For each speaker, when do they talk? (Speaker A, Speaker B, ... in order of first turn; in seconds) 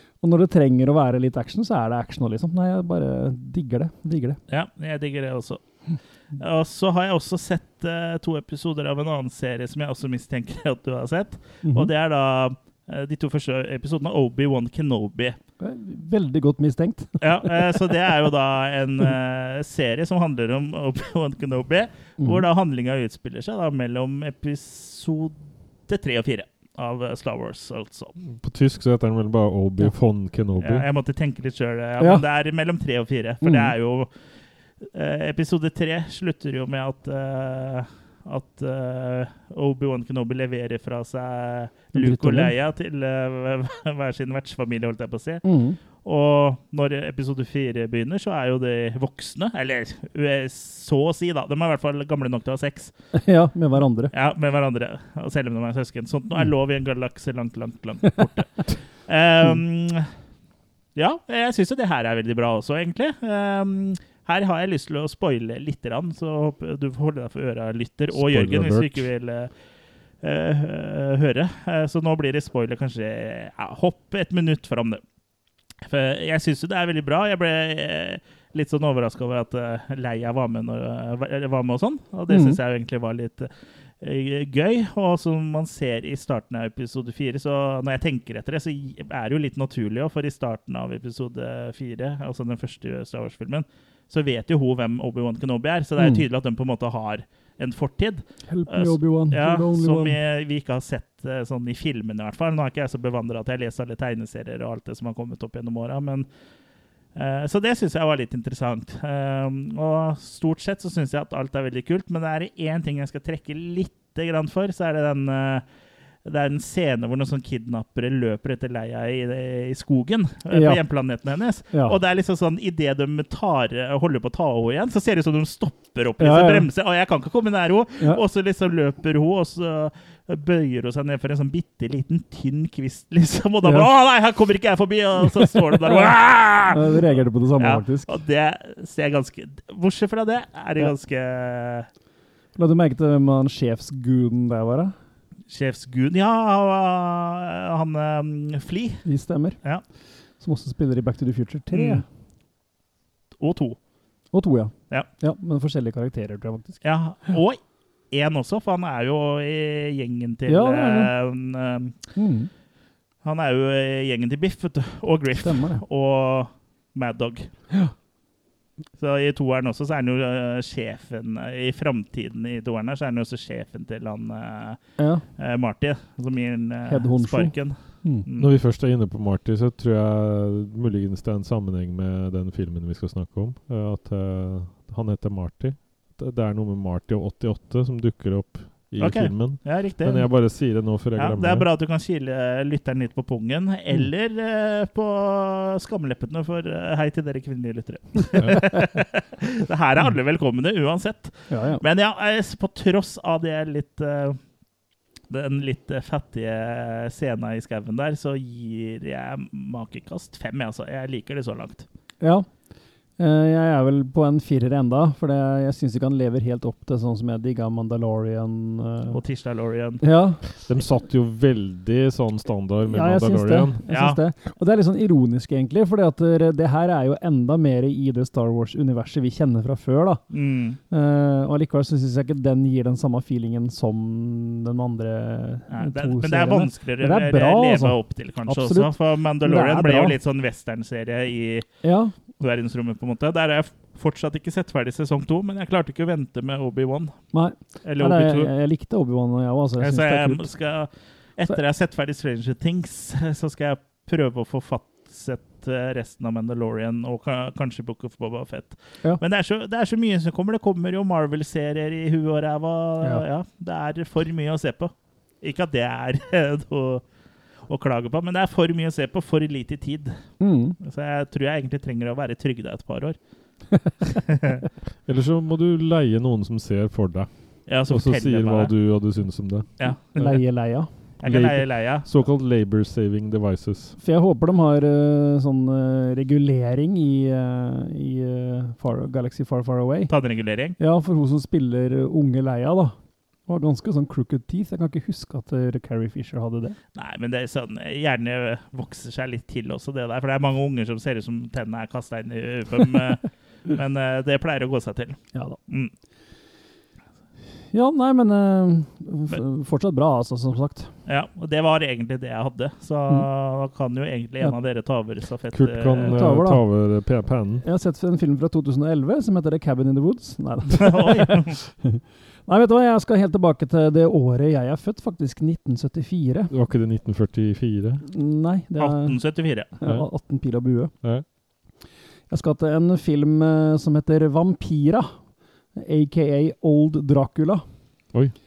Speaker A: 0.2-4.4, 11.6-11.9, 15.6-18.0, 22.2-22.4, 32.0-32.2, 33.4-33.7, 41.9-42.5, 45.4-45.8, 53.1-54.1, 82.3-82.6, 96.0-96.2, 98.5-100.2, 120.5-122.0, 126.2-126.7, 133.6-133.9, 135.4-135.9, 136.7-138.2, 142.6-144.9, 149.1-152.1, 154.3-157.4, 160.5-161.1, 162.2-162.5, 165.4-165.8, 175.0-175.3, 176.9-178.2, 201.5-201.8, 212.2-212.5, 213.2-219.2, 220.0-220.4, 222.9-230.3, 230.9-240.2, 241.8-242.3, 247.3-250.8, 270.4-270.8, 280.1-280.9, 284.0-290.1, 290.8-296.8, 305.3-305.6, 307.7-310.9, 316.1-326.5, 328.1-330.9, 332.3-335.1, 335.7-337.7
Speaker B: 4.5-15.4, 17.2-28.1, 30.6-52.9, 54.1-60.1, 61.0-69.6, 70.2-75.0, 75.8-106.3, 107.1-115.7, 116.2-141.9, 145.5-149.1, 151.7-152.0, 153.4-153.8, 156.8-162.2, 163.2-167.5, 169.0-178.5, 189.0-204.4, 205.3-211.9, 219.1-220.0, 223.9-224.2, 230.3-230.8, 235.7-248.5, 249.8-267.1, 267.6-273.2, 274.3-274.6, 277.7-278.8, 279.8-280.6, 281.2-282.1, 290.1-290.8, 296.9-305.9, 311.1-316.2, 320.9-321.6, 328.8-329.7
Speaker C: 28.2-30.9, 68.1-69.1, 178.4-191.7, 198.4-198.7, 220.6-223.8, 275.1-280.5, 281.2-284.0, 315.5-317.7, 326.5-328.0, 329.8-330.1